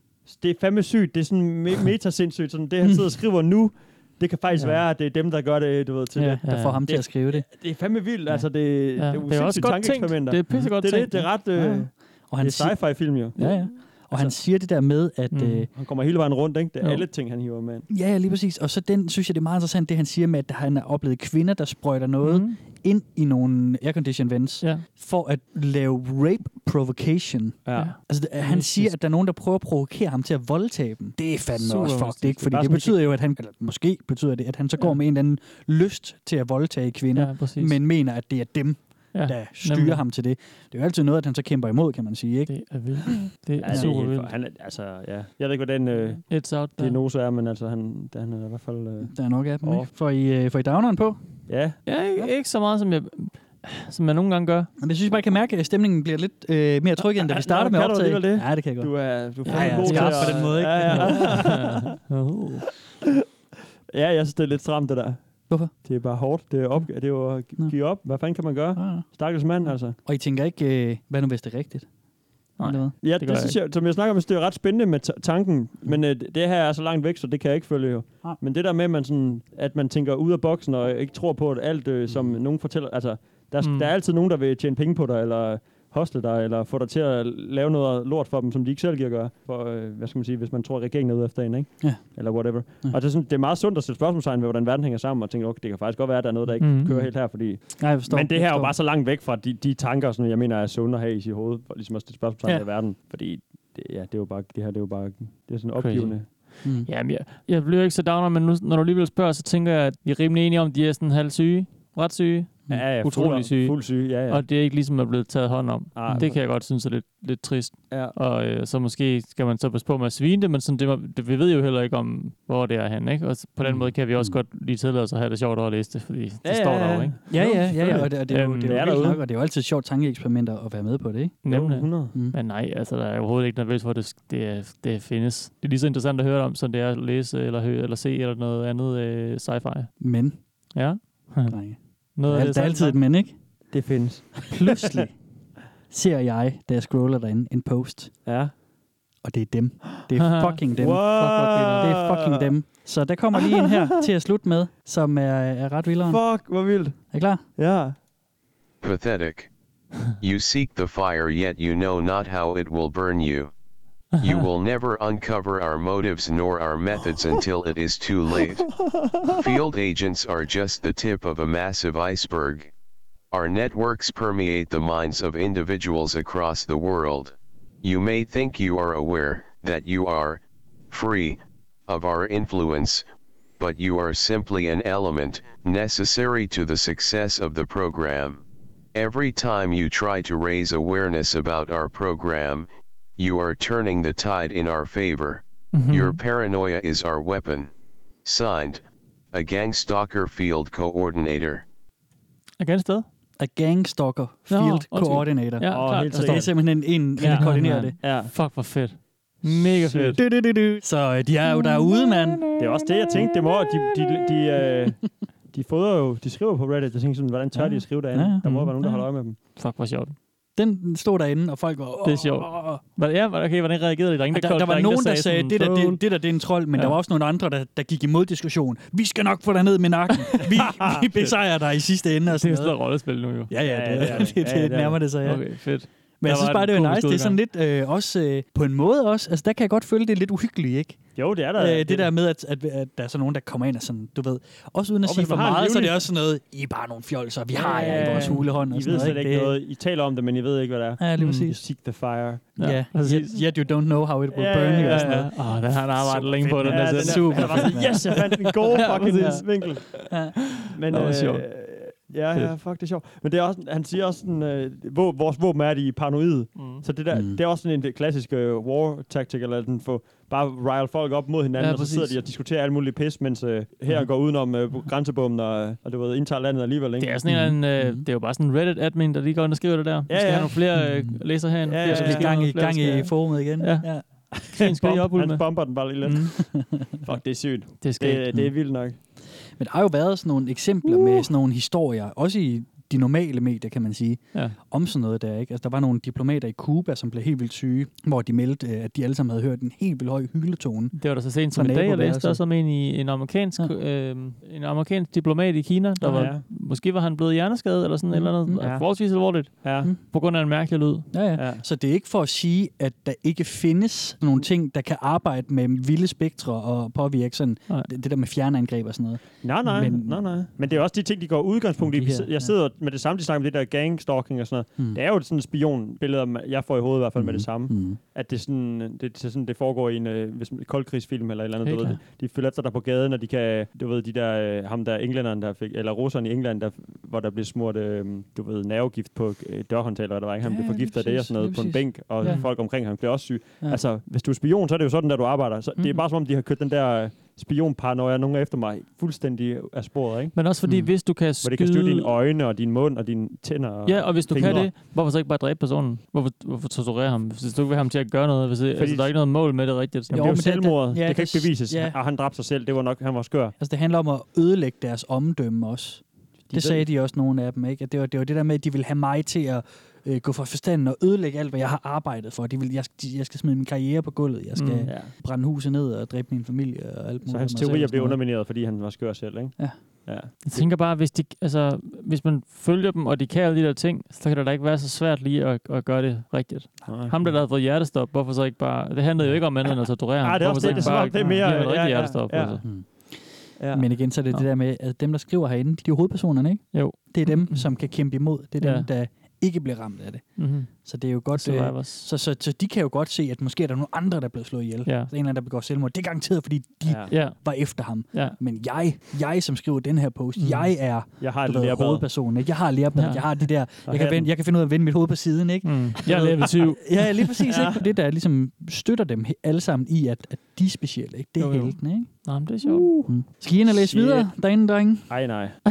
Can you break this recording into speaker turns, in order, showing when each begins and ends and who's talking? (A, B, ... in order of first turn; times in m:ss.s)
0:00.3-0:14.4 A
0:06.2-0:07.5 B
0:06.4-0:06.8 C
0:09.0-0:11.3 C
0:10.5-0:10.8 B
0:11.6-0:15.7 B
0:15.3-0:15.7 C
0:15.7-0:17.9 A
0:16.8-0:17.1 C
0:17.9-0:44.0 B
0:22.2-0:22.6 C
0:27.6-0:28.0 A
0:27.8-0:28.9 C
0:31.6-0:32.5 C
0:32.5-0:33.1 A
0:37.1-0:37.8 C
0:39.1-0:40.0 C
0:42.5-0:44.3 C
0:43.6-0:49.9 A
0:46.2-0:47.0 C
0:49.1-0:51.2 B
0:51.5-0:51.8 A
0:51.9-0:54.7 C
0:54.8-1:01.6 B
0:57.2-1:02.0 A
0:59.5-1:02.7 C
1:03.9-1:10.0 A
1:07.6-1:08.2 B
1:08.8-1:09.0 B
1:10.0-1:11.9 B
1:12.6-1:12.9 B
1:12.6-1:13.6 C
1:13.0-1:46.3 A
1:22.1-1:22.4 B
1:23.6-1:23.9 C
1:31.8-1:33.0 B
1:36.6-1:37.0 C
1:36.8-1:38.7 B
1:45.8-2:09.1 C
1:46.6-1:46.9 B
1:52.7-1:54.4 A
1:56.0-1:56.4 A
1:56.1-1:56.3 B
1:57.9-1:58.2 A
2:03.6-2:04.4 B
2:06.4-2:09.2 A
2:07.3-2:11.4 B
2:11.4-2:20.0 C
2:11.5-2:12.2 A
2:20.0-2:20.4 B
2:20.7-2:21.6 C
2:21.2-2:23.4 B
2:22.2-2:22.9 C
2:22.5-2:22.9 A
2:23.7-2:25.0 A
2:24.5-2:25.2 B
2:25.9-2:28.2 B
2:28.3-2:28.5 A
2:29.2-2:36.4 B
2:30.2-2:31.9 C
2:30.8-2:32.5 A
2:36.1-2:38.0 A
2:37.1-2:37.4 B
2:38.8-2:39.5 D
2:40.2-2:43.5 D
2:44.1-2:44.4 C
2:44.2-2:48.7 D
2:49.4-2:52.7 D
2:53.3-3:03.0 D
3:03.6-3:08.4 D
3:09.0-3:12.7 D
3:13.2-3:17.7 D
3:15.7-3:16.2 C
3:18.2-3:18.8 D
3:19.3-3:21.6 D
3:22.6-3:23.1 C
3:23.4-3:28.0 B
3:24.5-3:30.2 C
3:25.7-3:26.6 A
3:27.2-3:28.3 A
3:29.4-3:30.2 A
3:30.2-3:33.3 B
3:32.6-3:39.4 A
3:37.5-3:39.0 B
3:38.4-3:38.7 C
3:39.6-3:40.2 C
3:40.6-3:42.8 B
3:42.0-3:46.0 C
3:44.3-3:53.0 B
3:52.3-3:53.5 C
3:53.5-3:55.7 B
3:53.6-3:55.0 A
3:55.2-3:57.4 C
3:56.2-4:01.0 B
4:01.2-4:02.1 A
4:01.6-4:09.6 B
4:05.0-4:06.0 A
4:07.6-4:12.6 A
4:07.7-4:09.2 C
4:11.0-4:11.6 B
4:11.2-4:11.6 C
4:12.6-4:13.5 C
4:12.6-4:15.3 B
4:14.3-4:20.0 A
4:14.8-4:18.2 C
4:16.6-4:18.3 B
4:18.7-4:22.5 C
4:19.2-4:19.5 B
4:20.1-4:20.4 B
4:20.7-4:37.2 A
4:26.6-4:26.8 C
4:27.1-4:27.4 B
4:31.6-4:32.2 C
4:37.0-4:45.5 C
4:37.2-4:38.1 B
4:40.1-4:40.7 A
4:40.7-4:44.8 B
4:41.6-4:42.3 A
4:44.6-4:49.0 A
4:46.0-4:47.0 B
4:47.8-4:48.3 C
4:48.3-5:02.5 B
4:50.9-4:51.3 C
5:00.9-5:11.2 C
5:06.0-5:06.3 B
5:06.1-5:06.4 A
5:08.1-5:08.7 B
5:08.6-5:09.9 A
5:11.1-5:20.8 B
5:11.4-5:11.6 A
5:19.4-5:50.4 A
5:21.8-5:22.6 B
5:27.2-5:28.0 B
5:31.7-5:32.0 C
5:31.7-5:32.0 B
5:40.4-5:42.6 B
5:42.2-5:42.5 C
5:50.4-5:52.2 C
5:50.6-5:50.9 B
5:51.4-5:54.7 A
5:53.8-6:00.5 C
5:54.4-5:54.7 B
5:58.8-6:03.6 A
6:00.1-6:02.0 B
6:03.6-6:18.2 B
6:06.5-6:06.9 A
6:14.6-6:15.0 C
6:17.3-6:20.7 A
6:20.4-6:32.7 C
6:26.9-6:27.2 A
6:27.0-6:27.4 B
6:29.2-6:29.6 B
6:30.2-6:33.0 A
6:30.6-6:31.5 B
6:32.6-7:05.4 B
6:33.6-6:34.0 A
6:36.7-6:37.8 C
6:38.6-6:38.9 C
6:40.4-6:42.1 C
6:44.9-6:45.1 C
6:46.8-6:47.1 A
6:47.1-6:48.4 C
6:50.4-6:50.8 C
6:51.2-6:52.1 A
6:53.0-6:53.5 C
6:53.9-6:54.3 A
6:55.6-6:57.4 C
6:57.5-6:57.8 A
7:01.4-7:03.2 C
7:02.6-7:03.1 A
7:03.7-7:04.3 A
7:05.1-7:05.6 A